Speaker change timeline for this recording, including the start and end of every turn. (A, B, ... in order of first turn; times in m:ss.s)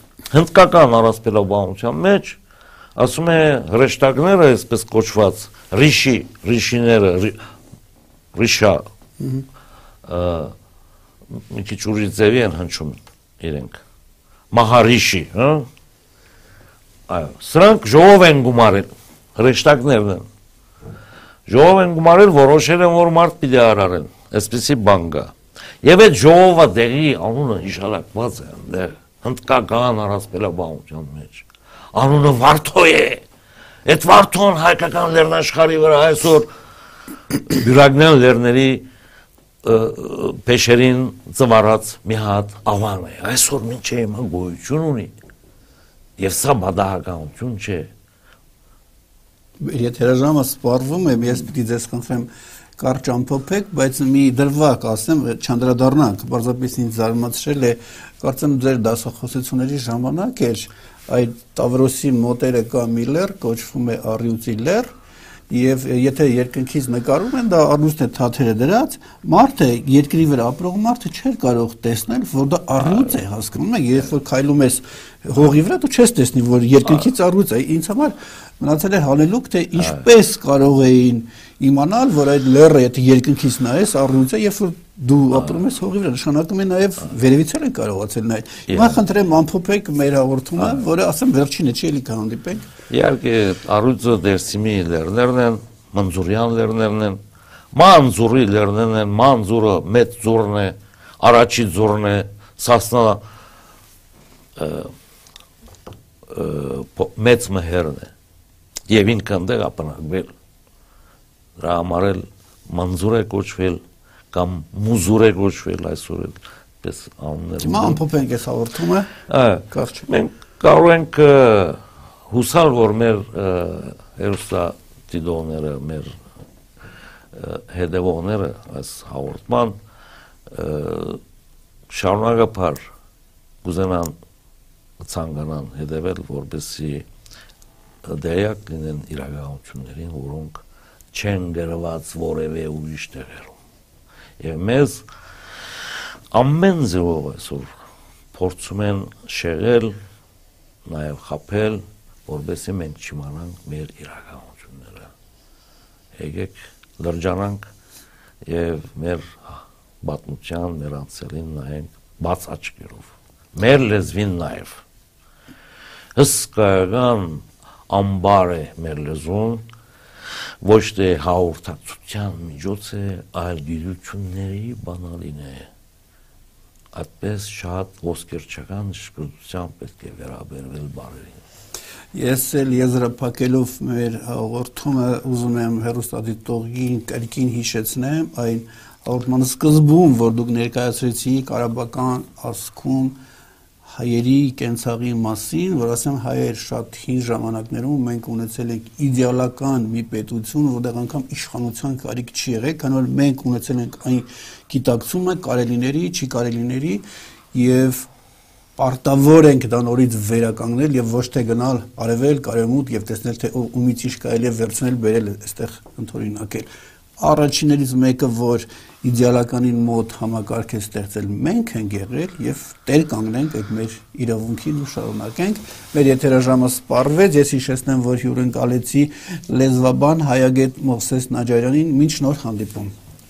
0:00.3-0:02.4 A
0:03.0-0:07.4 A
0:08.4-0:08.8 A
0:09.2-0:09.4 B
0:10.1-0:10.5 A
0:11.5-0:13.8 A
0:14.5-0:15.7 A
0:17.1-0:20.3 A
0:21.5-0:33.2 A
0:33.9-0:36.5 A
0:37.5-0:38.9 A
0:39.6-0:45.1 A
0:46.2-0:47.9 A
0:49.6-1:04.9 B
1:05.5-1:32.7 B
1:19.8-1:20.1 A
1:28.7-1:29.0 A
1:32.9-1:37.2 A
1:37.7-1:43.2 A
1:44.6-1:44.9 A
1:46.3-1:48.1 A
1:48.9-1:50.3 A
1:51.6-1:53.8 A
1:54.3-1:58.0 A
1:57.6-1:59.1 B
1:59.3-2:06.2 A
1:59.7-2:00.1 B
2:07.3-2:09.8 A
2:10.5-2:11.2 A
2:11.9-2:12.8 A
2:13.6-2:14.2 A
2:15.0-2:17.1 A
2:18.0-2:23.6 A
2:24.4-2:25.0 A
2:26.3-2:27.7 A
2:28.3-2:30.0 A
2:30.8-2:35.1 A
2:36.2-2:37.7 A
2:38.5-2:44.8 A
2:46.2-2:49.6 A
2:50.6-2:55.7 A
2:57.0-3:01.4 A
3:02.1-3:13.2 B
3:13.8-3:28.1 B
3:28.8-3:36.7 B
3:37.2-3:52.9 B